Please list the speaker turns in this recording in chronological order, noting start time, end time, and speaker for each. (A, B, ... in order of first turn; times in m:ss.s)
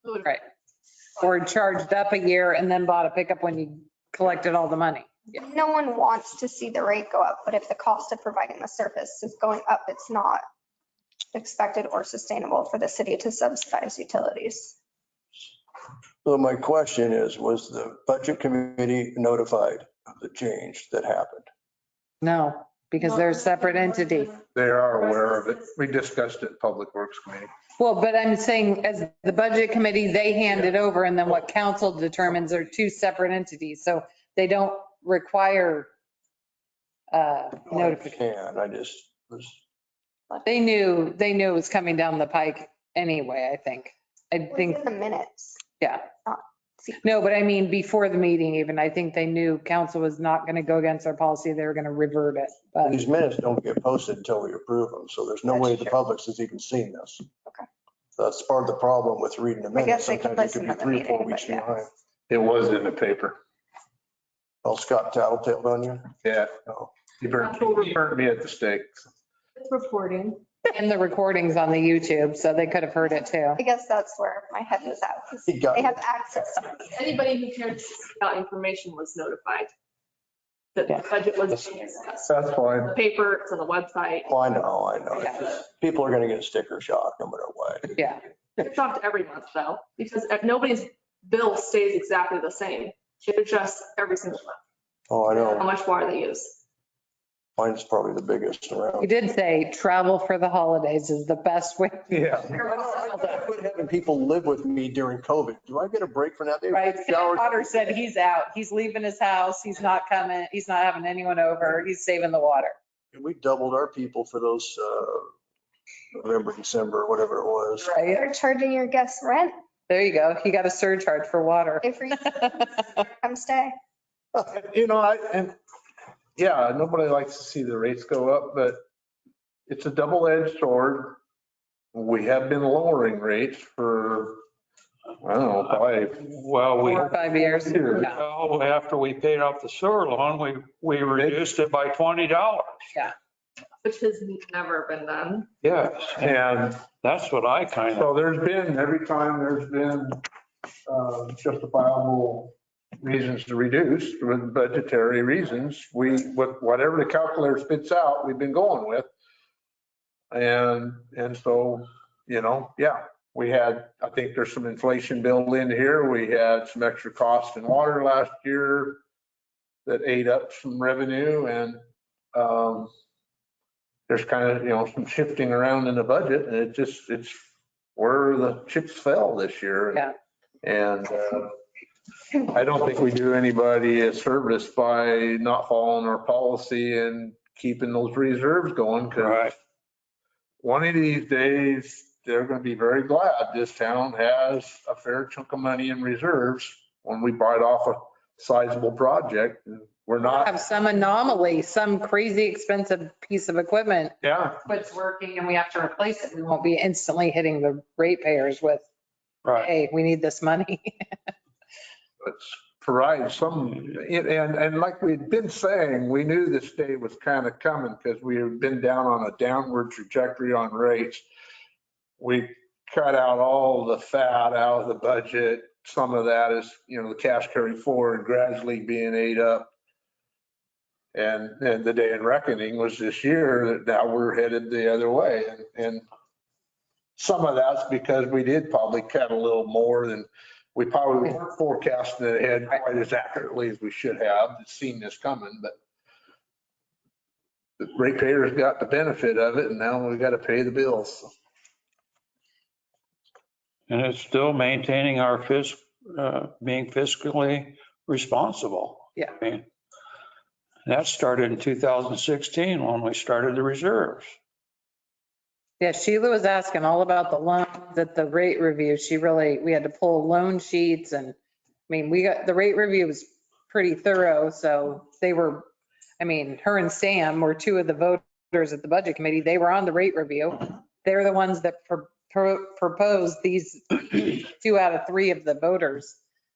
0:01.2-0:05.4 A
0:05.4-0:10.4 B
0:11.3-0:14.8 B
0:16.2-0:21.5 C
0:22.2-0:24.4 A
0:24.6-0:27.5 D
0:27.8-0:35.9 A
0:37.1-0:38.2 A
0:37.7-0:39.6 C
0:40.4-0:44.8 A
0:44.5-0:45.6 B
0:45.8-0:46.1 A
0:46.2-0:47.0 B
0:47.0-0:53.0 A
0:52.8-0:57.3 C
0:55.5-0:55.9 B
0:58.2-1:01.9 C
0:59.8-1:01.8 B
1:02.3-1:03.4 D
1:04.6-1:06.1 C
1:06.2-1:06.5 D
1:07.2-1:09.0 D
1:07.4-1:08.0 E
1:09.6-1:10.5 E
1:10.6-1:13.6 A
1:13.6-1:16.8 B
1:15.5-1:16.0 C
1:16.8-1:19.7 E
1:20.8-1:24.3 E
1:22.3-1:23.0 D
1:24.3-1:28.0 C
1:28.0-1:28.2 A
1:28.6-1:34.6 E
1:35.1-1:35.6 C
1:35.3-1:36.6 E
1:37.6-1:39.1 C
1:39.0-1:43.0 A
1:42.1-1:42.5 D
1:42.5-1:47.6 C
1:46.7-1:52.8 A
1:53.1-1:55.3 C
1:56.1-1:57.9 C
1:57.8-1:58.2 A
1:58.1-1:59.6 B
1:59.9-2:02.9 A
2:01.8-2:03.7 B
2:04.4-2:05.6 D
2:06.4-2:08.8 D
2:09.7-2:11.2 D
2:11.9-2:14.4 D
2:15.2-2:16.2 D
2:15.8-2:22.9 F
2:16.8-2:18.2 A
2:17.7-2:18.0 D
2:21.1-2:21.4 D
2:23.8-2:25.5 E
2:25.6-2:26.5 F
2:26.2-2:26.8 D
2:27.0-2:28.1 F
2:27.9-2:30.2 D
2:30.9-2:39.1 D
2:40.3-2:49.0 D
2:49.9-2:51.8 D
2:52.3-2:52.9 D
2:54.1-2:57.4 D
2:58.0-3:00.1 D
3:00.6-3:01.6 D
3:02.5-3:09.5 D
3:09.2-3:09.5 F
3:10.6-3:20.5 D
3:20.2-3:24.2 A
3:24.2-3:24.6 D
3:24.7-3:28.9 A
3:29.4-3:29.7 F
3:29.6-3:31.0 A
3:32.2-3:41.2 D
3:42.2-3:49.7 D
3:51.1-3:56.0 D
3:57.2-4:05.8 D
4:07.8-4:11.3 D
4:13.9-4:19.7 F
4:20.9-4:24.4 F
4:25.8-4:31.4 A
4:31.9-4:35.7 A
4:36.2-4:46.2 A